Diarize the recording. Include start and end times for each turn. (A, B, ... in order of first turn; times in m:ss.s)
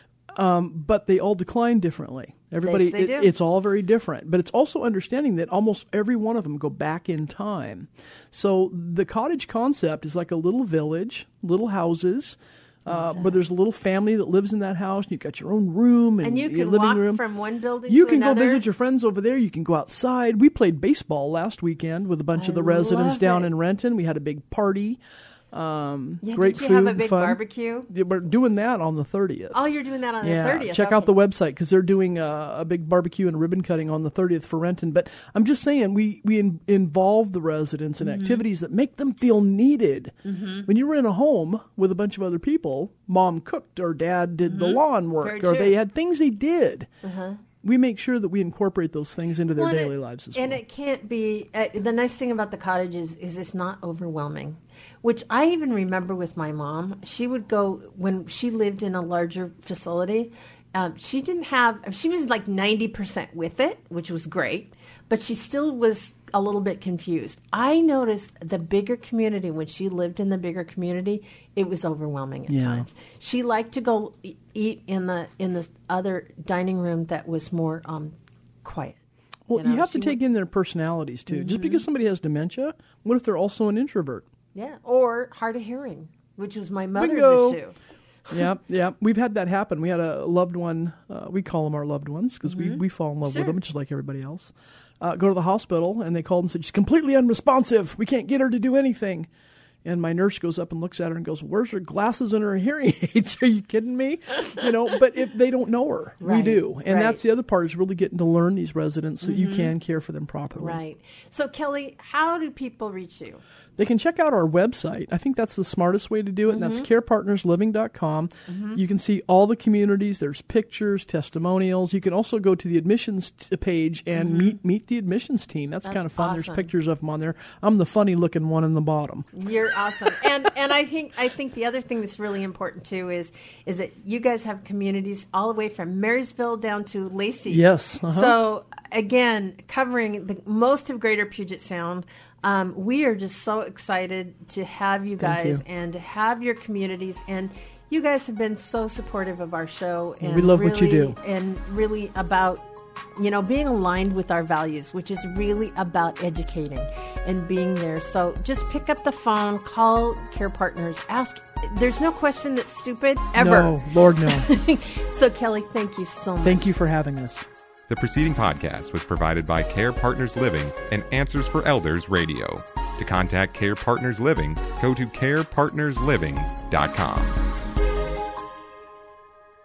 0:00.3-0:17.2 A
0:02.6-0:03.3 B
0:12.9-0:13.4 B
0:16.2-0:18.6 B
0:17.9-0:25.0 A
0:22.3-0:23.5 B
0:25.5-0:46.9 A
0:26.2-0:27.9 B
0:29.5-0:31.1 B
0:38.0-0:38.4 B
0:40.2-0:40.7 B
0:44.4-0:45.8 B
0:47.0-0:47.4 B
0:47.6-0:50.6 A
0:49.5-1:19.0 B
1:12.5-1:12.8 A
1:19.5-1:24.2 A
1:19.5-1:20.2 B
1:21.3-1:21.8 B
1:24.5-1:28.5 B
1:27.0-1:27.6 A
1:28.3-1:39.3 A
1:32.4-1:33.6 B
1:39.8-1:50.8 A
1:46.2-1:47.2 B
1:49.2-1:49.7 B
1:50.6-1:53.4 B
1:53.8-2:09.3 A
1:56.4-1:56.9 B
1:58.5-1:58.8 B
2:04.1-2:04.6 B
2:05.8-2:06.7 B
2:09.3-2:46.7 B
2:17.5-2:18.4 A
2:25.2-2:25.6 A
2:30.2-2:31.2 A
2:43.3-2:44.5 A
2:46.4-2:47.4 A
2:47.9-2:57.4 C